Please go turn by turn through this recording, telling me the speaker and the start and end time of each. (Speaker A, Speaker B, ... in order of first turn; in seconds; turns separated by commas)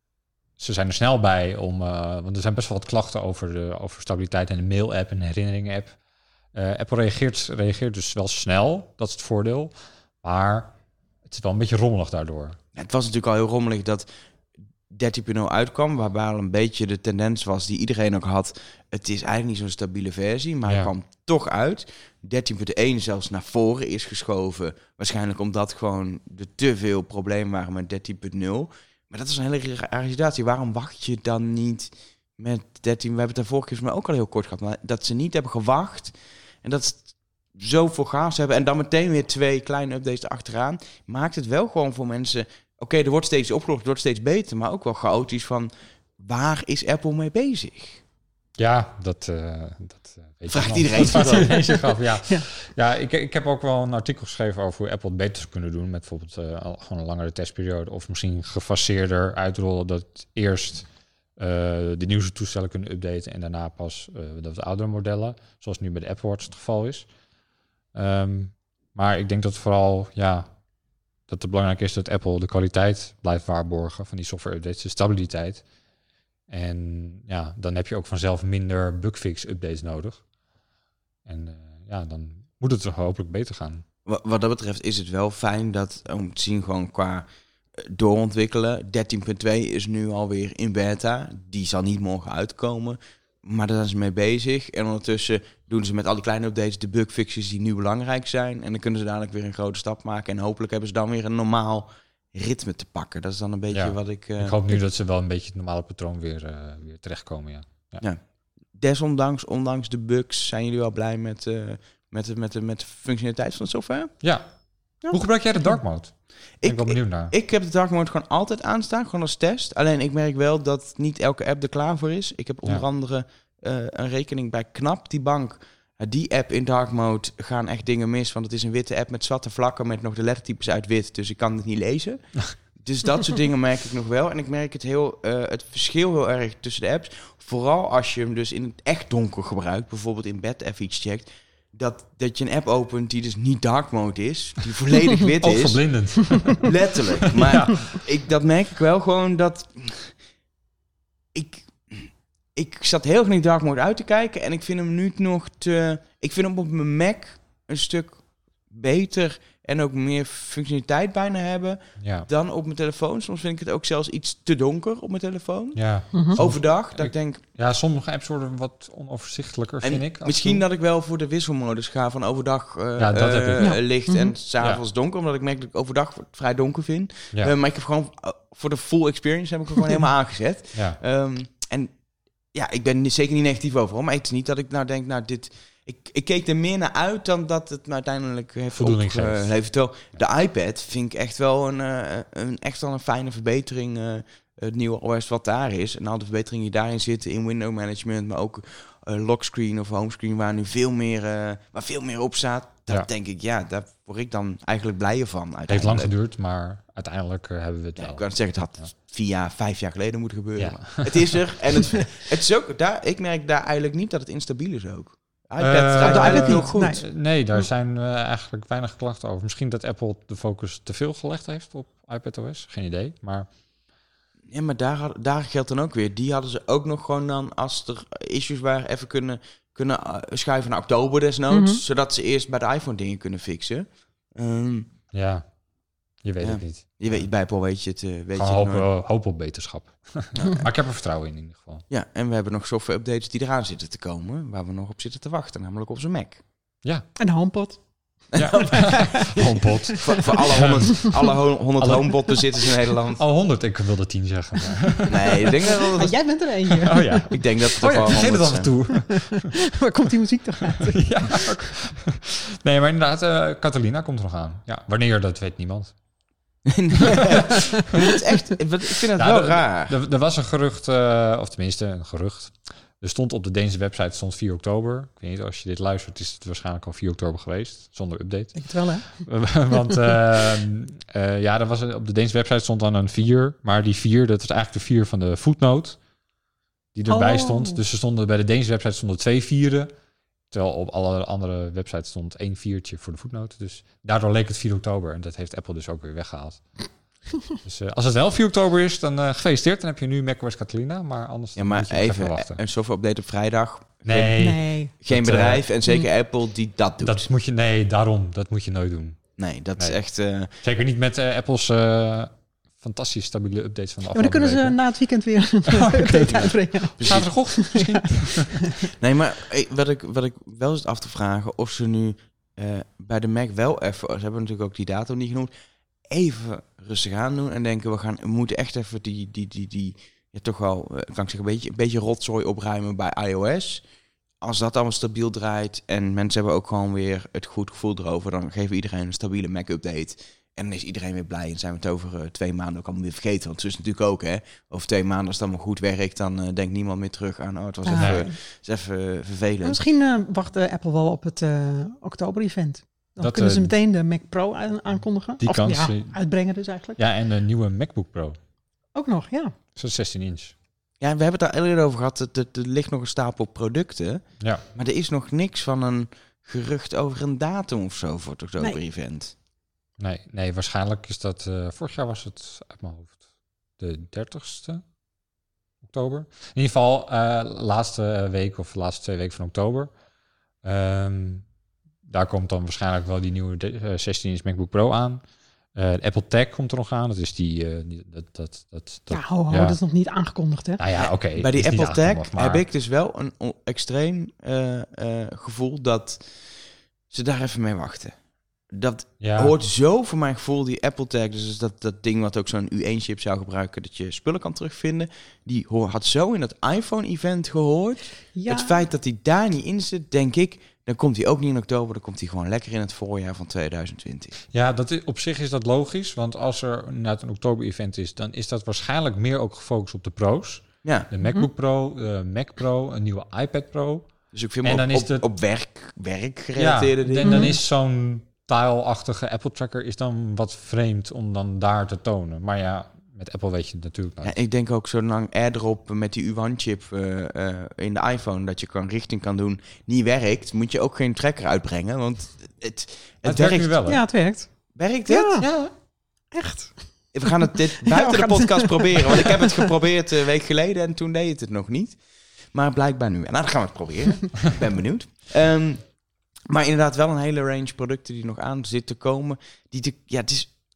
Speaker A: 0.6-6.0, Speaker A: 6.5-10.7, Speaker A: 11.3-12.6, Speaker B: 12.8-14.1, Speaker B: 14.9-48.0, Speaker A: 48.6-67.1, Speaker B: 50.5-51.6, Speaker C: 51.3-52.5, Speaker A: 67.9-70.5, Speaker A: 71.3-75.6, Speaker A: 76.5-80.2, Speaker A: 81.3-83.8, Speaker B: 84.1-104.6, Speaker A: 103.7-108.0, Speaker B: 108.8-114.2, Speaker A: 114.2-117.3, Speaker C: 115.0-115.8, Speaker B: 116.6-150.2, Speaker A: 145.4-148.1, Speaker B: 151.3-167.4, Speaker A: 162.0-162.3, Speaker A: 165.8-170.6, Speaker C: 166.1-166.4, Speaker B: 169.8-181.9, Speaker A: 173.0-173.8, Speaker C: 173.6-174.3, Speaker B: 182.5-206.1, Speaker A: 188.8-189.5, Speaker A: 205.7-208.8, Speaker B: 208.0-217.0, Speaker A: 210.6-211.4, Speaker A: 215.6-223.5, Speaker C: 216.0-217.0, Speaker B: 224.5-234.9, Speaker C: 231.5-231.8, Speaker A: 235.1-235.5, Speaker A: 236.2-237.3, Speaker B: 236.4-238.9, Speaker A: 238.3-241.8, Speaker B: 240.3-240.7, Speaker B: 241.9-246.4, Speaker C: 247.2-247.8, Speaker B: 248.3-249.1, Speaker A: 248.3-251.2, Speaker C: 248.5-250.2, Speaker B: 250.0-253.2, Speaker A: 251.8-252.5, Speaker A: 253.2-255.9, Speaker B: 255.1-256.1, Speaker C: 255.7-257.2, Speaker A: 256.8-259.7, Speaker B: 257.3-258.8, Speaker C: 259.0-261.7, Speaker A: 260.7-265.9, Speaker B: 266.7-270.0, Speaker A: 267.1-267.5, Speaker A: 269.2-286.0, Speaker C: 278.6-279.3, Speaker A: 286.9-289.9, Speaker C: 287.1-287.8, Speaker A: 290.5-296.9, Speaker A: 297.6-302.6, Speaker B: 301.6-304.4, Speaker A: 304.1-305.6, Speaker C: 304.4-304.9, Speaker B: 305.0-307.3, Speaker A: 307.0-309.2, Speaker B: 309.4-310.5, Speaker A: 310.6-314.8, Speaker C: 314.1-318.6, Speaker A: 315.7-318.6, Speaker B: 317.0-317.3, Speaker B: 319.0-325.5, Speaker B: 326.1-333.8, Speaker B: 334.4-349.8, Speaker C: 347.9-348.4, Speaker A: 347.9-348.2, Speaker C: 349.6-357.0, Speaker A: 353.2-353.7, Speaker A: 355.4-356.2, Speaker A: 357.0-358.4, Speaker C: 358.9-359.5, Speaker A: 359.8-360.5, Speaker B: 361.0-369.3, Speaker A: 370.0-373.2, Speaker A: 373.8-374.8, Speaker A: 375.8-379.9, Speaker A: 380.6-381.4, Speaker A: 382.1-385.2, Speaker A: 385.7-389.8, Speaker C: 389.1-390.8, Speaker A: 390.8-392.6, Speaker B: 391.0-396.3, Speaker B: 397.1-398.2, Speaker B: 398.7-414.4, Speaker A: 399.2-399.5, Speaker C: 408.4-408.8, Speaker A: 414.5-424.1, Speaker B: 420.8-421.1, Speaker C: 421.2-421.5, Speaker B: 424.3-427.5, Speaker A: 424.6-425.2, Speaker A: 426.6-434.4, Speaker C: 427.2-427.6, Speaker B: 434.2-443.8, Speaker A: 443.2-444.0, Speaker C: 443.9-444.5, Speaker B: 444.7-445.5, Speaker C: 445.1-445.5, Speaker A: 445.4-445.7, Speaker C: 446.3-449.7, Speaker B: 447.1-455.9, Speaker B: 456.5-460.5